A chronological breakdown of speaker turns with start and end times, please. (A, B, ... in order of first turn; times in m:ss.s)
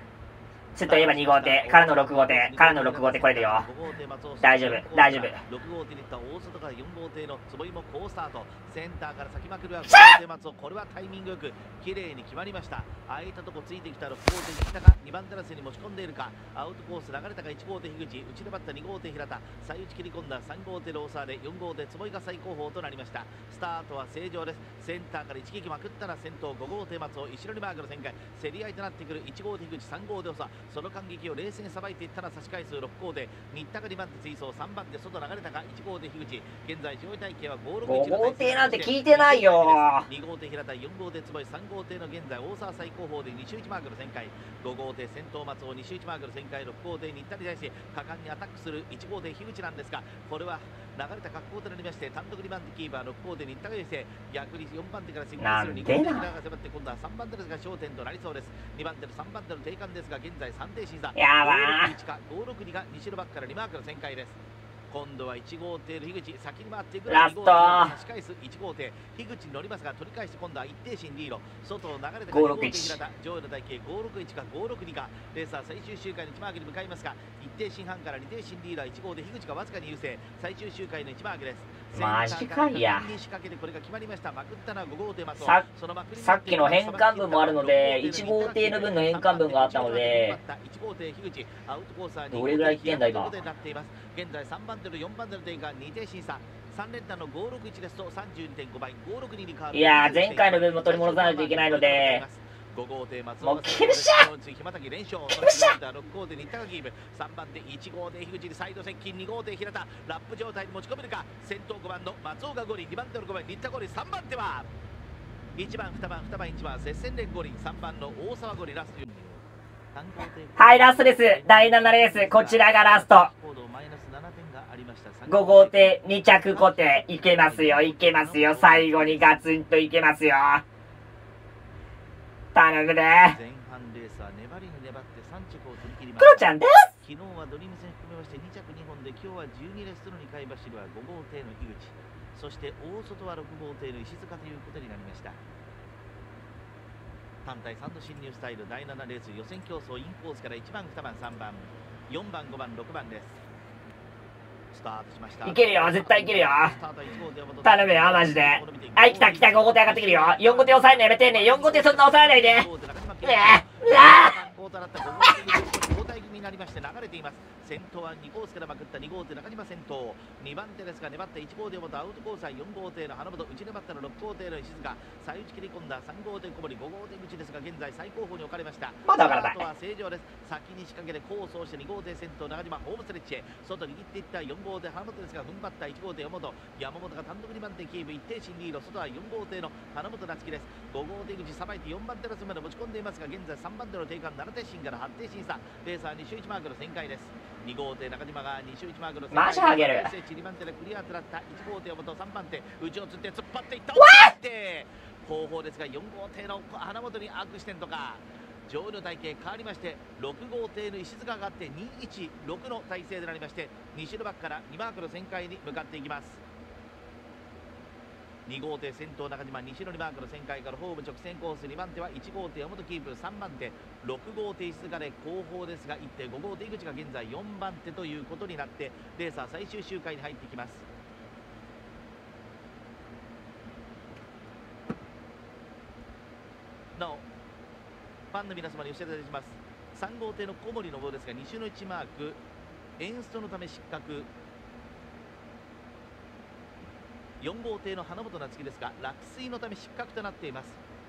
0:00.8-0:03.6 A
0:00.8-1:04.4 B
0:04.4-0:05.4 A
0:09.9-0:10.1 A
0:37.9-0:40.1 A
0:55.4-0:56.3 A
1:01.2-1:01.9 A
1:04.9-1:54.7 B
1:07.1-1:07.9 A
1:12.3-1:13.0 A
1:21.9-1:23.1 A
1:26.2-1:30.4 A
1:32.3-1:33.3 A
1:39.7-1:42.2 A
1:43.4-1:44.3 A
1:45.3-1:45.8 A
1:55.6-2:06.0 B
2:00.6-2:03.3 A
2:05.3-2:10.6 A
2:06.5-2:09.4 B
2:12.5-2:13.4 A
2:13.3-2:25.4 B
2:16.2-2:16.9 A
2:27.4-2:33.4 B
2:34.7-3:36.4 B
2:35.4-2:36.8 A
2:37.6-2:42.7 A
2:43.2-2:44.4 A
2:59.1-2:59.6 A
3:19.3-3:20.1 A
3:24.0-3:24.3 A
3:38.5-3:50.8 B
3:57.0-3:57.2 B
3:58.3-4:02.4 B
4:03.0-4:04.3 B
4:07.4-4:10.8 B